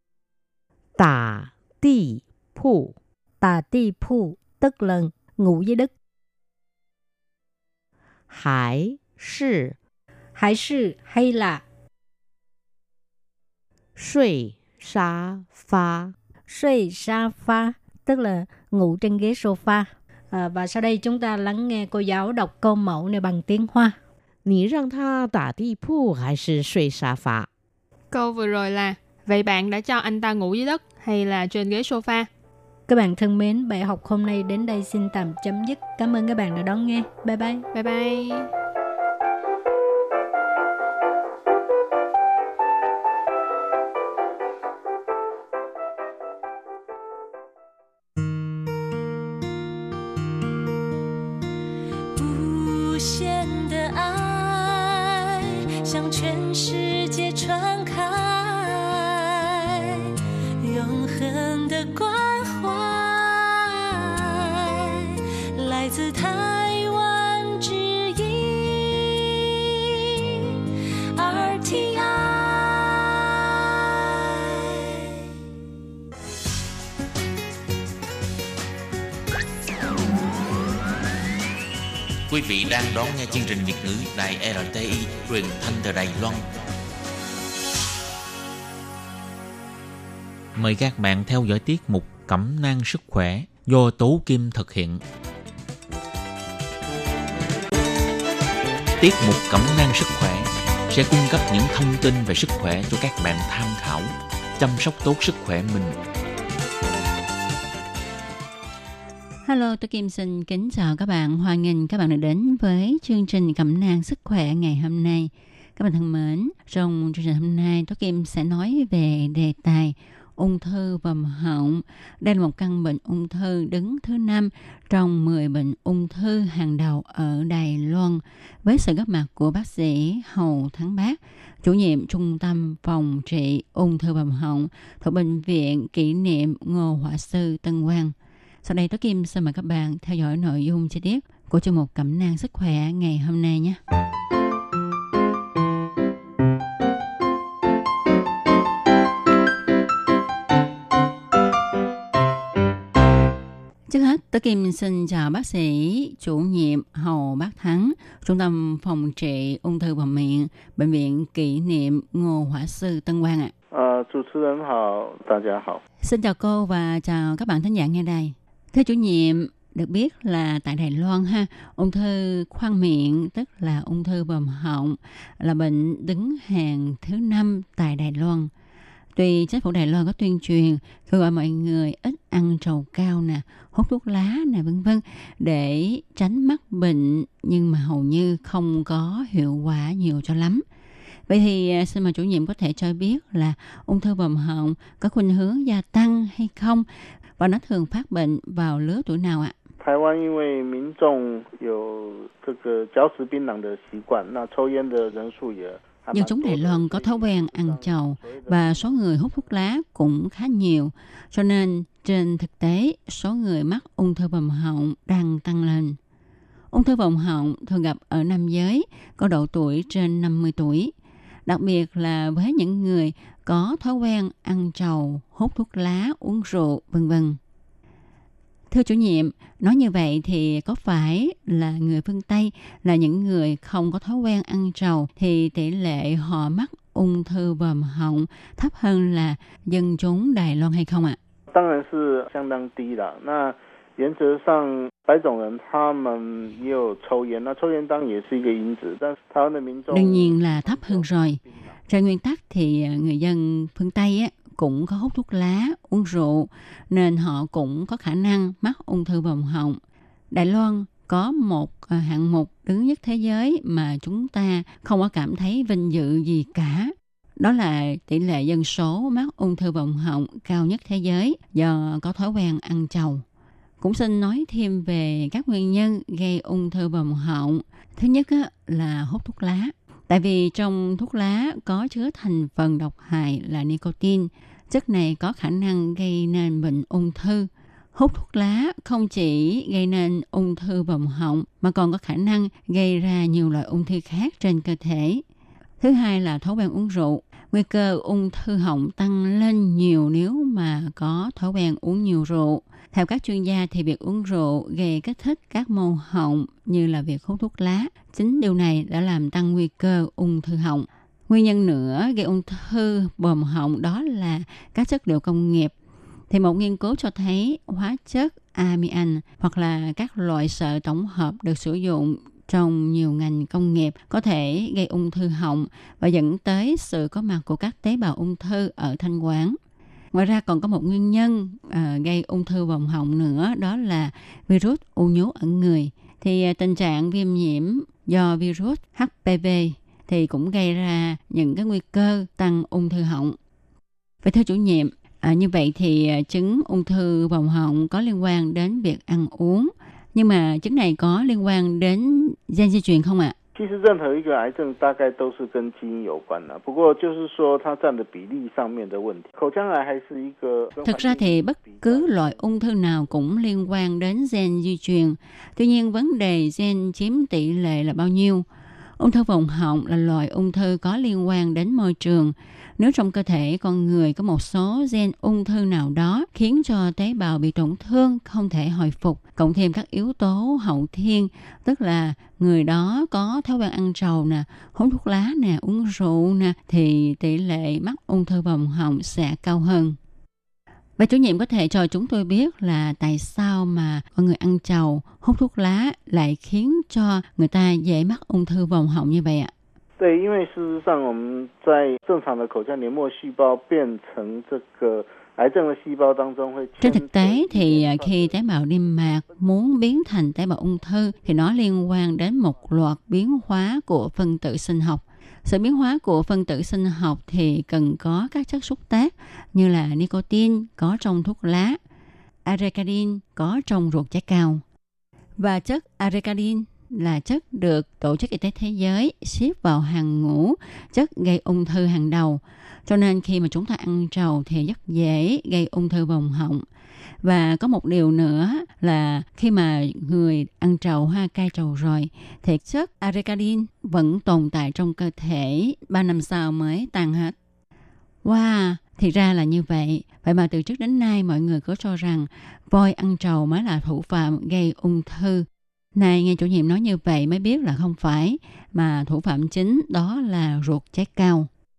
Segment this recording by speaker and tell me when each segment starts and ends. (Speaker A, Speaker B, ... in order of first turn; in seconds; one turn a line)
Speaker A: 1.0-3.0
Speaker B: 3.4-5.9
Speaker A: 8.3-9.8
Speaker B: 10.4-11.6
Speaker A: 14.0-16.1
Speaker B: 16.5-24.0
Speaker A: 24.4-27.5
Speaker C: 28.1-32.3
Speaker B: 32.9-37.6
Speaker C: 37.7-38.5
Speaker D: 52.1-69.8
Speaker D: 71.1-75.0
Speaker E: 82.3-86.5
Speaker E: 90.6-95.0
Speaker E: 99.0-106.0
Speaker F: 109.5-143.8
Speaker F: 153.9-163.5
Speaker G: 163.7-165.8
Speaker F: 166.0-178.5
Speaker F: 179.1-190.6
Speaker F: 191.3-196.9
Speaker F: 197.4-199.6
Speaker G: 199.8-209.6
Speaker F: 206.1-216.0
Speaker F: 216.7-220.9
Speaker F: 221.5-227.4
Speaker F: 228.7-241.2
Speaker G: 241.5-251.8
Speaker F: 249.9-259.8
Speaker F: 260.3-273.2
Speaker F: 273.8-295.2
Speaker F: 295.8-315.7
Speaker F: 316.3-329.6
Speaker F: 330.1-343.4
Speaker F: 344.2-353.4
Speaker G: 353.5-362.5
Speaker F: 360.8-368.5
Speaker F: 369.0-390.0
Speaker F: 391.0-399.5
Speaker G: 400.0-409.7
Speaker F: 406.8-421.8
Speaker G: 411.1-411.7
Speaker F: 422.5-424.6
Speaker F: 425.4-436.6
Speaker F: 437.2-447.4
Speaker F: 448.2-461.5